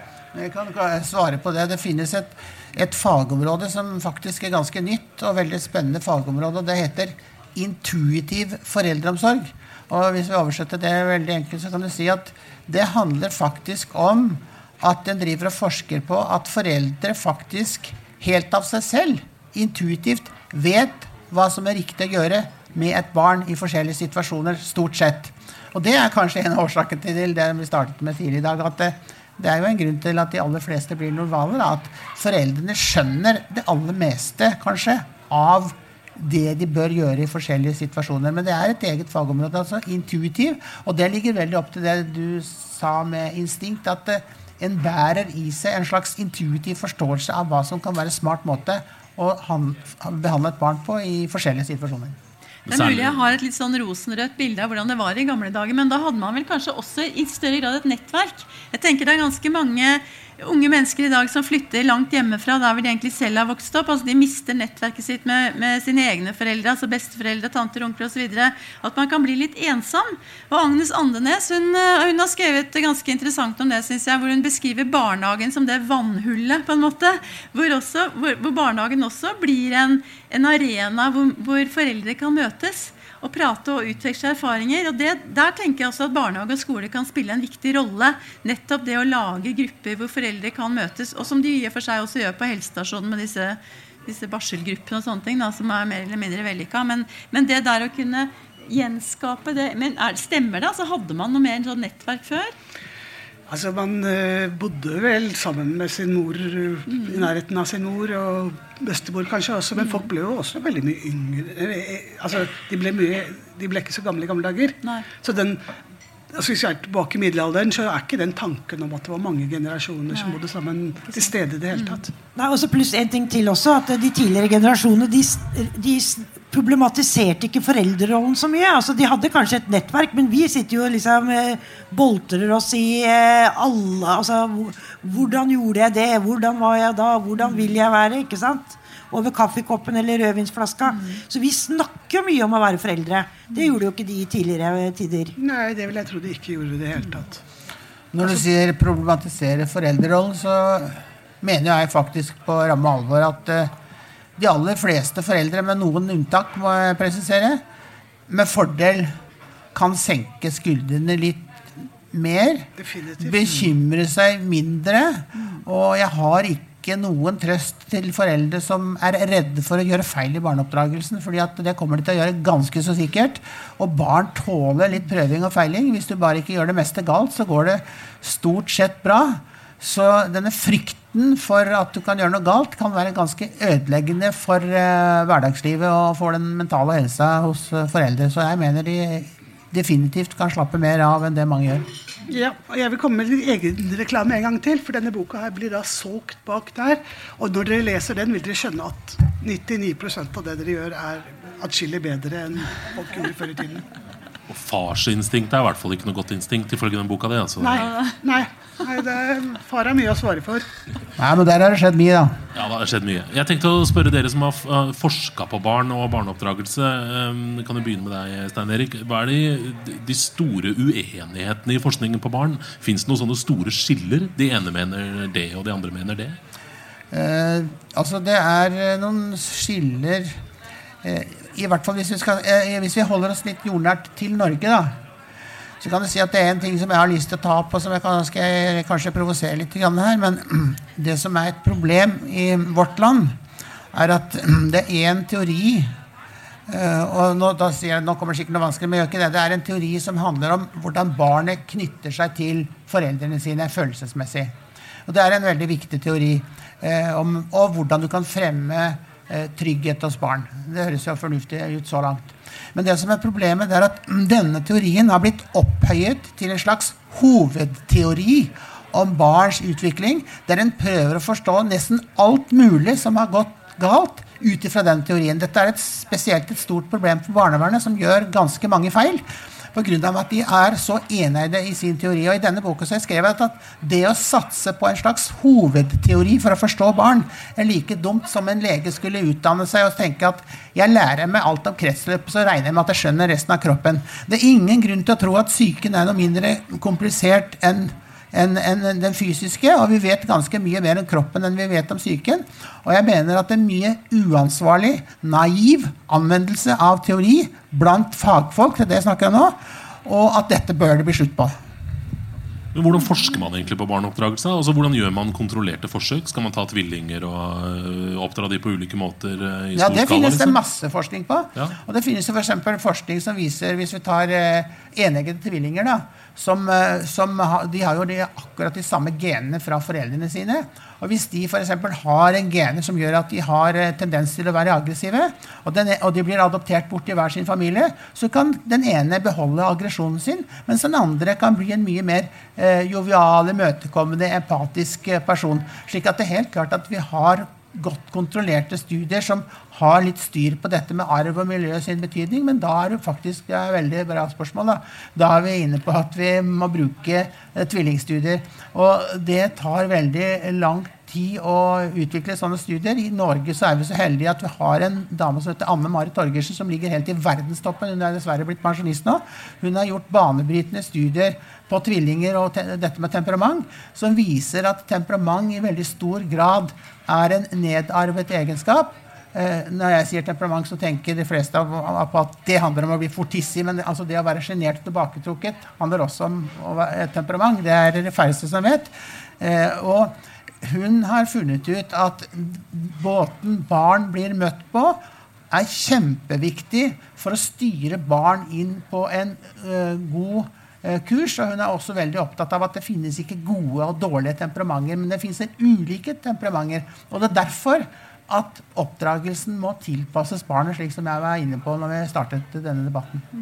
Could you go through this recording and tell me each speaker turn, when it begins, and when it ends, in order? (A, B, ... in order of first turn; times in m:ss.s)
0:00.3-0:52.2 A
0:52.7-0:53.3 B
0:52.7-1:42.5 C
1:43.5-1:55.8 D
1:46.9-1:47.3 C
1:56.3-2:02.1 D
2:00.1-2:00.4 C
2:01.2-2:02.0 C
2:02.4-2:25.4 E
2:25.4-2:27.4 D
2:28.1-2:33.7 A
2:34.4-2:37.6 A
2:38.3-2:39.2 A
2:39.7-2:41.6 A
2:42.1-2:42.7 A
2:42.8-2:43.7 D
2:43.2-3:11.9 A
2:45.4-2:45.6 C
3:12.3-3:23.8 D
3:24.5-3:27.9 B
3:27.6-3:30.7 D
3:31.2-3:32.4 A
3:32.6-3:46.4 B
3:47.1-3:50.4 A
3:51.0-3:55.0 A
3:55.8-4:03.4 A
4:03.9-4:05.9 A
4:06.7-4:14.6 A
4:15.1-5:11.6 A
5:12.7-5:20.6 B
5:19.7-6:35.0 A
6:35.5-6:53.3 A